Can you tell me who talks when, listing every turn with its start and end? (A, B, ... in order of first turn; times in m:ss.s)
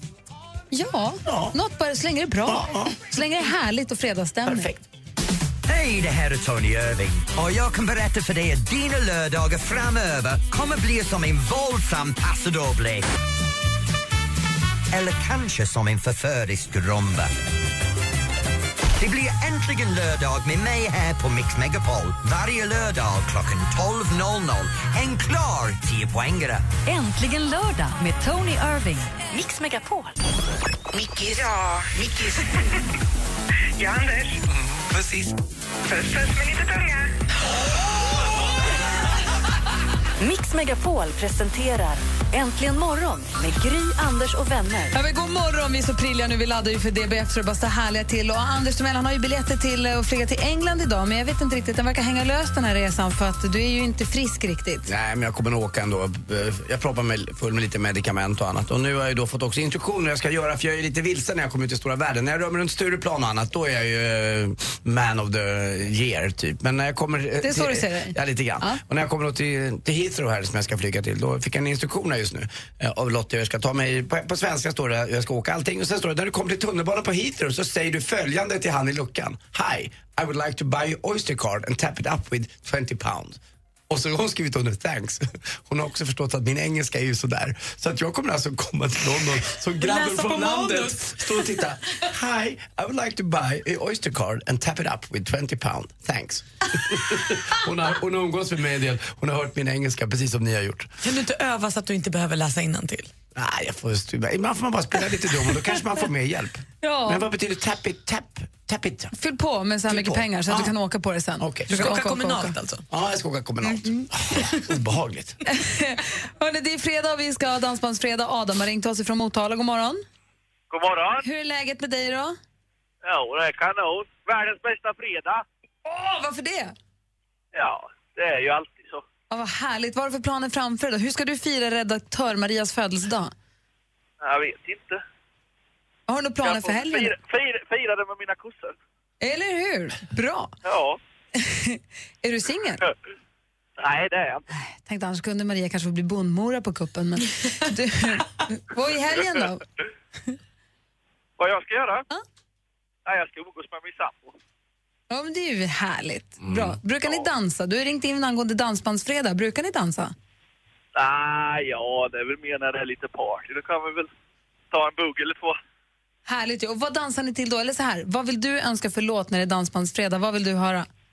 0:00.7-0:04.7 A
0:01.3-0:01.6 B
0:02.5-0:03.0 B
0:04.5-0:04.8 B
0:05.7-0:13.1 C
0:14.9-0:17.3 C
0:19.0-0:26.7 C
0:26.9-0:30.1 D
0:30.9-0:32.5 E
0:33.8-0:34.4 E
0:35.0-0:35.2 E
0:35.9-0:37.0 E
0:40.2-0:44.9 D
0:44.9-0:54.9 A
0:54.9-1:23.4 B
1:07.4-1:08.8 A
1:23.9-1:40.9 B
1:29.8-1:31.1 F
1:41.0-1:43.1 F
1:43.4-1:49.1 B
1:46.8-1:47.2 A
1:49.1-1:52.6 A
1:49.9-1:50.7 B
1:51.4-1:51.7 B
1:51.7-1:52.8 F
1:52.9-1:55.4 B
1:55.5-2:00.0 A
2:00.7-2:01.2 G
2:01.2-2:02.4 A
2:03.0-2:05.4 G
2:05.8-2:06.7 A
2:07.5-2:09.0 G
2:09.3-2:13.3 A
2:14.2-2:15.0 G
2:16.1-2:17.2 A
2:16.4-2:18.8 G
2:19.2-2:20.5 A
2:20.6-2:21.0 G
2:21.4-2:22.8 A
2:23.8-2:24.4 G
2:24.5-2:29.6 A
2:31.4-2:32.0 G
2:33.1-2:34.3 G
2:35.1-2:40.1 A
2:41.0-2:44.1 G
2:44.7-2:45.6 G
2:46.3-2:50.9 A